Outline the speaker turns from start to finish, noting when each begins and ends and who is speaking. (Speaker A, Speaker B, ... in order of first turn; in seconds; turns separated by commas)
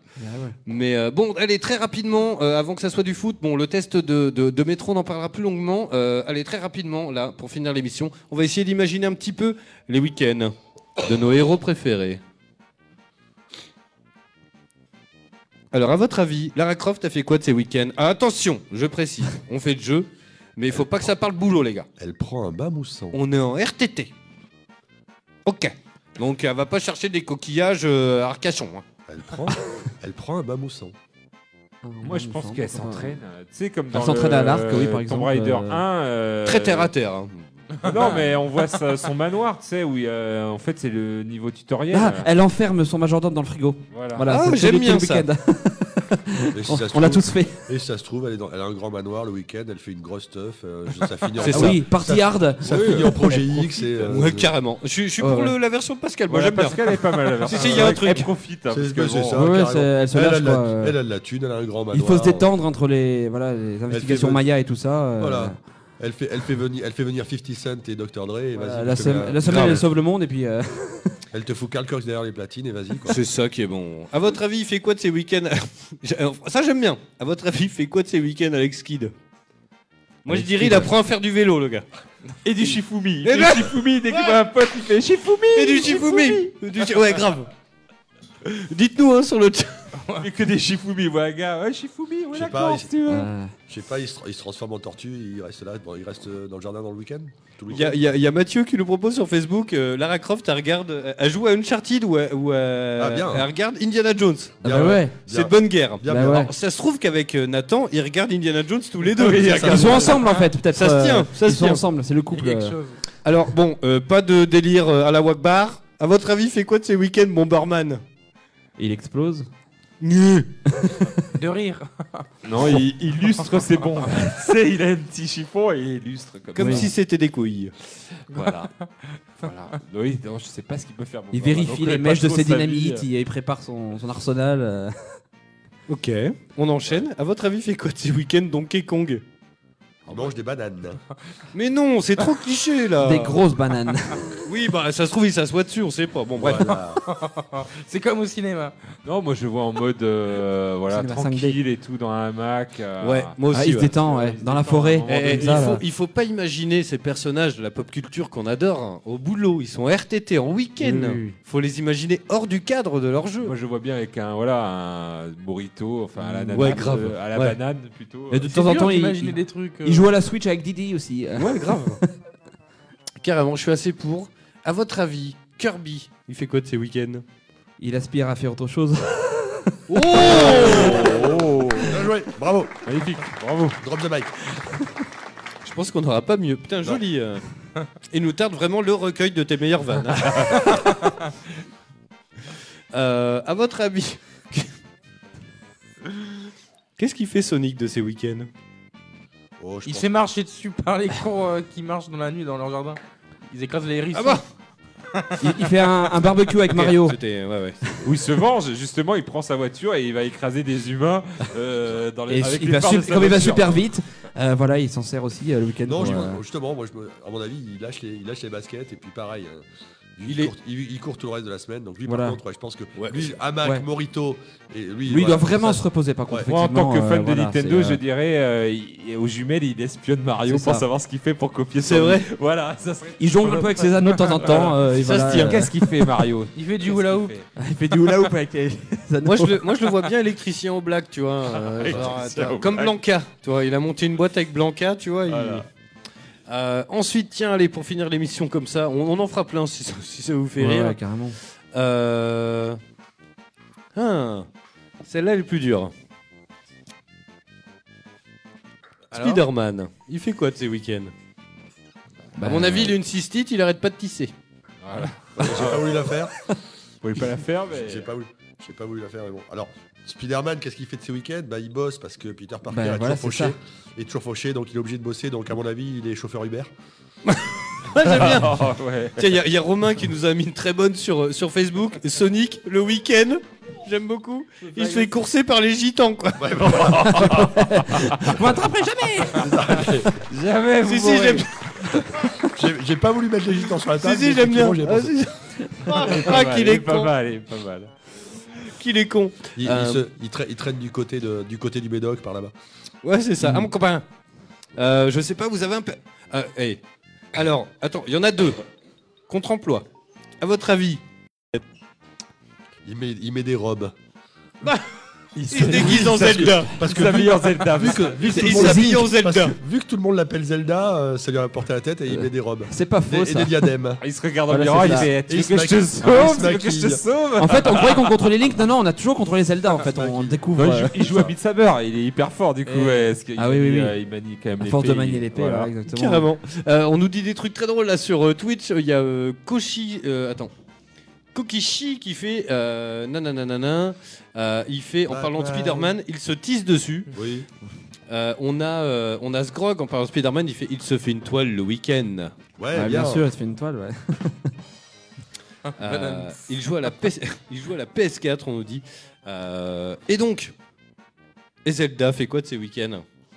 Speaker A: 0.2-0.6, Speaker B: 0.7-12.2, Speaker B: 15.7-21.9, Speaker C: 20.7-21.0, Speaker C: 22.0-23.2, Speaker B: 23.1-24.1, Speaker B: 25.4-28.8, Speaker C: 29.1-30.9, Speaker A: 31.8-33.2, Speaker D: 32.0-36.9, Speaker A: 33.9-35.8, Speaker B: 36.4-37.4, Speaker D: 37.8-42.3, Speaker A: 41.9-47.6, Speaker D: 43.9-44.3, Speaker B: 44.3-45.2, Speaker C: 46.5-54.5, Speaker B: 51.4-51.8, Speaker A: 51.4-53.4, Speaker D: 52.6-54.2, Speaker B: 54.1-58.3, Speaker A: 55.2-55.5, Speaker D: 56.3-59.4, Speaker C: 58.7-62.5, Speaker A: 59.3-61.0, Speaker A: 61.9-65.6, Speaker C: 63.9-64.4, Speaker C: 65.2-69.8, Speaker A: 68.5-71.1, Speaker B: 69.5-69.8, Speaker C: 71.3-73.2, Speaker B: 73.1-79.1, Speaker B: 80.2-81.8, Speaker D: 82.4-86.4, Speaker B: 83.2-84.3, Speaker B: 85.5-87.5, Speaker B: 88.4-89.8, Speaker D: 90.2-93.3, Speaker C: 92.3-92.9, Speaker A: 93.1-93.5, Speaker C: 93.7-98.0, Speaker B: 97.7-104.6, Speaker C: 103.0-103.5, Speaker C: 104.6-106.5, Speaker A: 104.6-105.1, Speaker B: 105.3-111.8, Speaker A: 106.1-106.5, Speaker D: 109.2-110.1, Speaker C: 109.4-110.2, Speaker A: 109.6-112.8, Speaker E: 112.3-113.0, Speaker B: 113.2-118.0, Speaker A: 118.8-119.5, Speaker B: 120.0-120.5, Speaker A: 120.7-121.3, Speaker E: 121.3-122.3, Speaker D: 122.4-126.9, Speaker B: 126.5-127.7, Speaker A: 126.6-126.9, Speaker D: 128.3-128.7, Speaker D: 129.4-133.1, Speaker A: 131.3-134.9, Speaker B: 135.9-139.2, Speaker C: 140.1-141.0, Speaker B: 141.5-143.4, Speaker A: 143.0-144.2, Speaker B: 144.4-146.8, Speaker C: 146.3-147.0, Speaker E: 147.0-148.7, Speaker D: 149.1-153.3, Speaker A: 150.9-151.6, Speaker B: 153.0-153.9, Speaker A: 153.5-155.8, Speaker D: 153.9-155.8, Speaker B: 155.1-163.6, Speaker A: 160.8-161.4, Speaker D: 163.4-168.5, Speaker A: 166.2-166.9, Speaker B: 166.5-167.6, Speaker A: 168.3-172.0, Speaker E: 168.5-170.1, Speaker B: 171.4-172.0, Speaker B: 173.2-177.2, Speaker A: 177.8-180.3, Speaker B: 179.9-181.3, Speaker D: 180.2-182.1, Speaker C: 180.2-182.8, Speaker D: 182.8-183.8, Speaker C: 183.8-184.3, Speaker B: 185.6-187.4, Speaker B: 188.1-191.0, Speaker D: 190.1-190.7, Speaker B: 192.9-194.7, Speaker B: 197.0-198.5, Speaker C: 199.6-200.1, Speaker E: 199.8-204.4, Speaker B: 204.1-204.4, Speaker E: 205.1-205.6, Speaker A: 205.4-207.2, Speaker B: 206.7-208.1, Speaker D: 208.0-213.8, Speaker A: 212.3-216.4, Speaker C: 215.8-219.7, Speaker C: 220.2-226.5, Speaker B: 220.3-220.5, Speaker A: 222.1-222.4, Speaker B: 222.9-223.3, Speaker A: 225.1-228.0, Speaker D: 226.5-237.4, Speaker A: 230.4-230.8, Speaker B: 231.8-232.3, Speaker A: 233.2-235.6, Speaker B: 235.0-235.7, Speaker E: 236.6-237.4, Speaker A: 237.6-239.6, Speaker B: 239.2-245.7, Speaker D: 241.5-243.0, Speaker D: 245.3-245.7, Speaker B: 246.5-251.0, Speaker A: 250.6-251.4, Speaker B: 251.7-252.8, Speaker B: 253.9-254.5, Speaker B: 255.0-255.9, Speaker B: 259.1-261.1, Speaker A: 262.4-262.9, Speaker B: 262.4-264.3, Speaker D: 264.8-266.0, Speaker C: 265.4-266.3, Speaker D: 267.0-268.1, Speaker C: 267.7-276.7, Speaker A: 272.7-273.5, Speaker B: 277.2-286.4, Speaker D: 278.1-279.3, Speaker C: 286.4-288.1, Speaker D: 286.6-288.3, Speaker A: 287.0-289.9, Speaker C: 289.3-290.1, Speaker D: 290.2-292.0, Speaker B: 290.8-291.5, Speaker C: 292.5-295.1, Speaker B: 294.0-297.1, Speaker D: 295.9-297.9, Speaker B: 298.8-300.1, Speaker C: 299.6-302.5, Speaker B: 303.0-304.1, Speaker B: 304.8-306.8, Speaker B: 307.3-308.6, Speaker B: 309.3-309.8, Speaker B: 310.4-311.0, Speaker C: 312.8-313.9, Speaker D: 315.4-318.8, Speaker B: 315.5-316.7, Speaker C: 315.6-324.0, Speaker B: 318.2-319.6, Speaker A: 318.6-318.9, Speaker A: 322.1-323.7, Speaker D: 324.0-328.1, Speaker A: 324.5-325.1, Speaker C: 324.8-327.0, Speaker A: 327.4-330.9, Speaker C: 329.8-330.4, Speaker D: 330.6-335.7, Speaker C: 331.1-331.3, Speaker E: 332.7-333.0, Speaker A: 333.4-334.0, Speaker A: 334.6-336.3, Speaker B: 335.9-340.5, Speaker B: 341.3-347.1, Speaker C: 345.1-345.9, Speaker C: 347.1-347.5, Speaker B: 348.1-352.3, Speaker C: 352.6-353.3, Speaker A: 352.7-354.5, Speaker E: 355.8-356.4, Speaker B: 355.8-360.5, Speaker B: 361.6-363.0